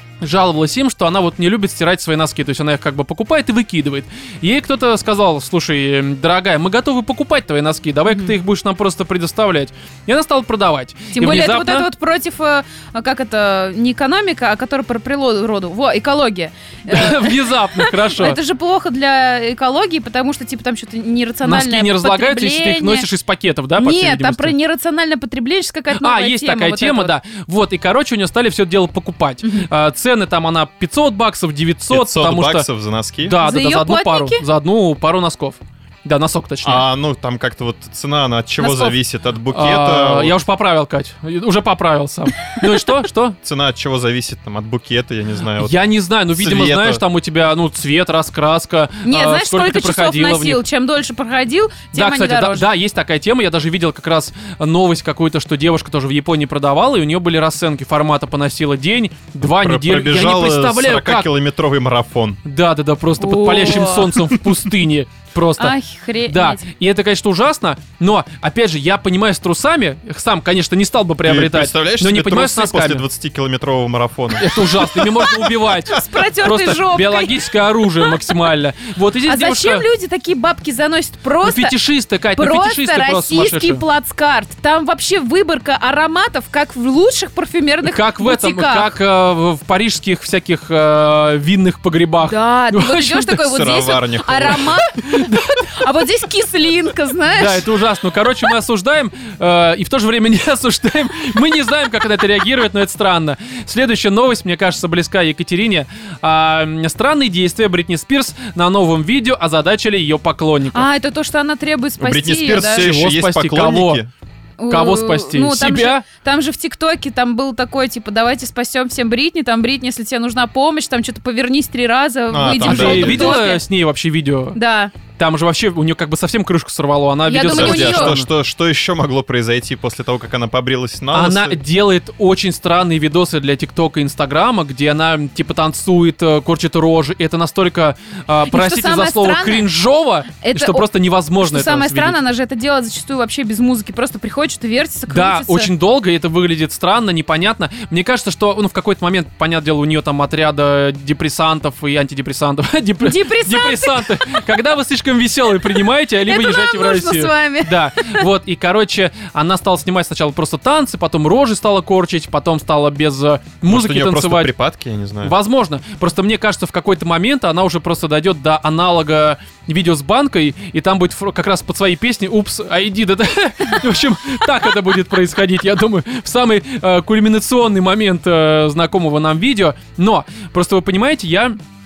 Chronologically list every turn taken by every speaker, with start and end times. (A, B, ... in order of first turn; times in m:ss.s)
0:00.2-0:11.9 A
0:11.1-0:23.1 B
0:16.9-0:18.4 A
0:21.4-0:24.5 A
0:23.8-0:27.1 B
0:26.0-0:32.7 A
0:29.4-0:29.7 B
0:31.9-0:33.4 C
0:33.2-0:36.8 A
0:33.4-0:34.4 B
0:36.6-0:40.4 C
0:38.6-0:39.0 B
0:39.5-0:43.4 A
0:43.4-0:47.0 C
0:45.6-0:50.6 A
0:49.0-0:52.7 B
0:51.9-1:01.3 A
0:59.6-1:02.4 C
1:02.4-1:05.8 A
1:03.2-1:04.3 B
1:05.6-1:06.6 B
1:06.3-1:13.1 A
1:11.2-1:15.3 C
1:14.4-1:19.9 A
1:15.9-1:18.2 B
1:19.3-1:21.8 B
1:21.4-1:23.8 A
1:22.4-1:28.9 B
1:27.8-1:33.4 A
1:32.2-1:37.7 B
1:33.4-1:34.9 C
1:37.3-1:50.9 A
1:50.7-1:52.8 B
1:52.0-1:54.1 C
1:52.6-1:54.0 A
1:54.6-2:03.6 B
1:54.7-1:56.0 A
2:02.3-2:03.5 C
2:02.6-2:04.6 A
2:04.6-2:04.9 B
2:05.1-2:08.3 A
2:07.3-2:08.2 B
2:07.5-2:11.6 C
2:11.1-2:22.2 A
2:18.5-2:19.7 B
2:20.4-2:25.7 B
2:25.1-2:44.5 A
2:33.0-2:34.4 B
2:36.2-2:38.3 B
2:43.7-2:45.3 C
2:45.2-3:01.6 A